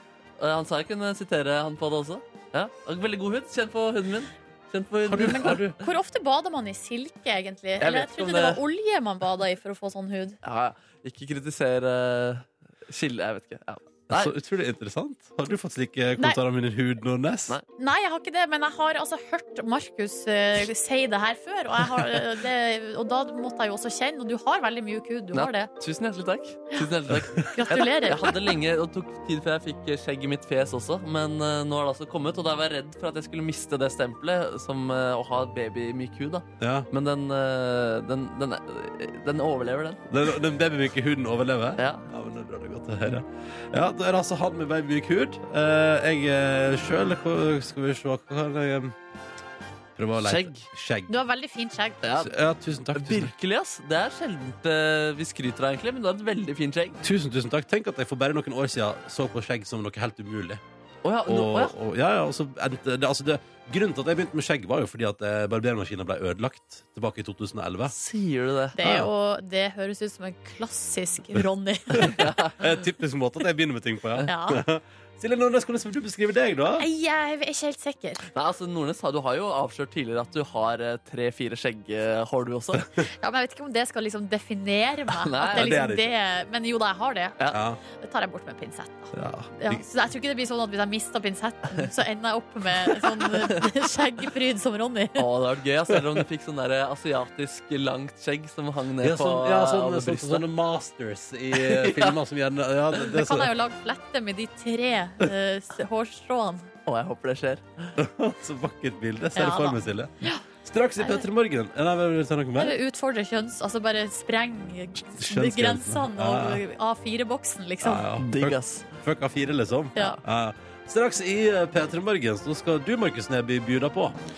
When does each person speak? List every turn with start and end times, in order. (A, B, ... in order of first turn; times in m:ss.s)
0:00.4-0:05.7 A
0:05.1-0:05.8 B
0:05.2-0:10.4 C
0:07.8-0:08.6 A
0:10.4-0:14.3 A
0:14.1-0:17.6 B
0:17.8-0:25.7 C
0:25.3-0:40.0 A
0:27.1-0:27.4 B
0:27.5-0:28.3 C
0:36.6-0:36.9 B
0:40.1-0:49.0 B
0:41.8-0:42.1 A
0:50.0-0:51.1 B
0:50.2-0:50.7 A
0:51.1-0:52.0 C
0:52.0-0:52.3 A
0:52.2-0:53.3 B
0:52.9-0:57.0 A
0:57.0-1:00.6 B
1:01.0-1:01.7 A
1:01.3-1:07.9 B
1:07.9-1:08.8 A
1:08.8-1:12.2 C
1:08.8-1:09.1 B
1:12.0-1:16.9 B
1:12.0-1:12.6 A
1:14.2-1:14.6 C
1:16.8-1:18.2 C
1:18.3-1:22.9 A
1:23.2-1:35.2 C
1:25.2-1:25.8 A
1:25.4-1:26.1 B
1:27.5-1:27.8 B
1:29.1-1:29.8 B
1:33.3-1:33.6 A
1:35.2-1:40.5 A
1:39.0-1:43.5 B
1:41.6-1:42.2 A
1:43.0-1:46.7 C
1:46.9-1:47.9 A
1:48.0-1:52.8 B
1:49.4-1:50.4 C
1:51.0-1:51.2 C
1:52.6-1:58.0 C
1:55.1-1:56.6 B
1:57.8-2:04.2 B
1:58.2-1:58.9 A